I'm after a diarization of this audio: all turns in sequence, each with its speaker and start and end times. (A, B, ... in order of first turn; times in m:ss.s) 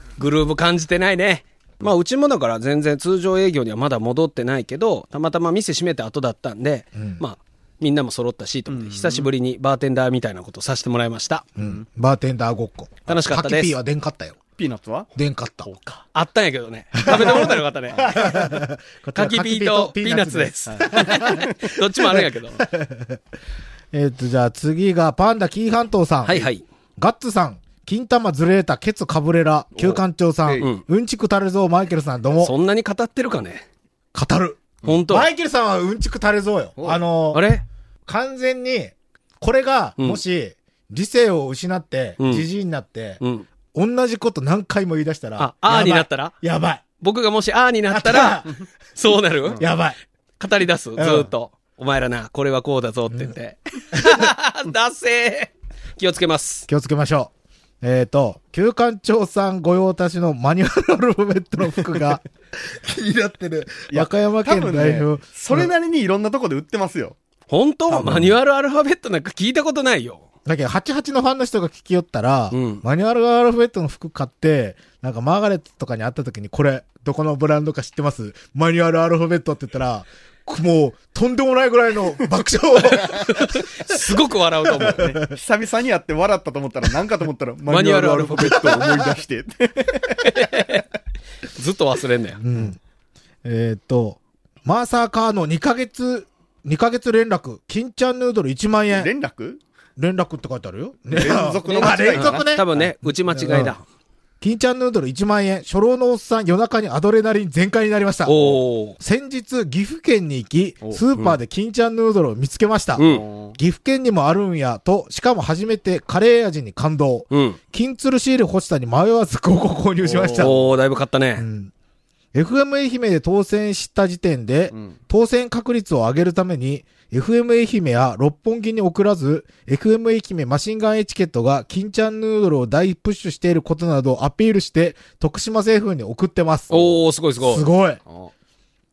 0:00.2-0:11.5 A
0:07.0-0:07.2 B
0:08.7-0:09.3 C
0:11.6-0:14.4 B
0:11.6-0:11.8 C
0:13.1-0:13.7 A
0:14.6-0:15.1 C
0:15.2-0:15.7 B
0:15.6-0:16.1 C
0:16.1-0:18.2 A
0:17.1-0:21.5 B
0:17.1-0:18.2 C
0:19.2-0:22.6 A
0:20.7-0:21.5 C
0:22.0-0:23.2 B
0:23.9-0:32.6 B
0:26.3-0:26.6 A
0:29.8-0:30.7 C
0:32.4-0:33.6 A
0:34.1-0:37.4 B
0:34.8-0:35.3 A
0:37.3-0:37.6 A
0:38.1-0:43.2 B
0:42.2-0:42.5 A
0:43.2-0:43.5 A
0:43.7-0:46.8 B
0:45.4-0:46.3 A
0:47.0-0:49.6 A
0:47.9-0:48.6 B
0:49.6-0:50.0 B
0:50.4-0:56.7 A
0:51.0-0:51.3 B
0:56.7-0:57.3 B
0:57.8-1:05.7 B
1:03.9-1:07.2 C
1:07.5-1:10.2 A
1:07.9-1:08.3 B
1:08.0-1:08.2 C
1:10.5-1:24.0 B
1:12.5-1:12.8 A
1:23.0-1:25.2 A
1:24.7-1:25.4 B
1:24.8-1:30.3 C
1:27.7-1:28.9 A
1:28.7-1:29.2 B
1:30.2-1:30.8 A
1:31.6-1:32.4 A
1:32.4-1:32.8 B
1:33.4-1:39.1 B
1:38.9-1:39.6 C
1:40.0-1:43.8 B
1:41.1-1:42.9 C
1:41.6-1:43.8 A
1:44.4-1:48.4 B
1:48.2-1:49.0 A
1:49.0-2:00.6 B
1:50.8-1:51.1 C
1:53.0-1:53.2 A
1:53.0-1:53.6 C
1:57.3-1:57.6 A
2:00.0-2:00.7 C
2:00.4-2:01.5 A
2:01.4-2:01.7 B
2:02.3-2:16.8 B
2:04.7-2:05.0 C
2:16.7-2:17.6 A
2:17.4-2:18.0 B
2:18.1-2:18.3 C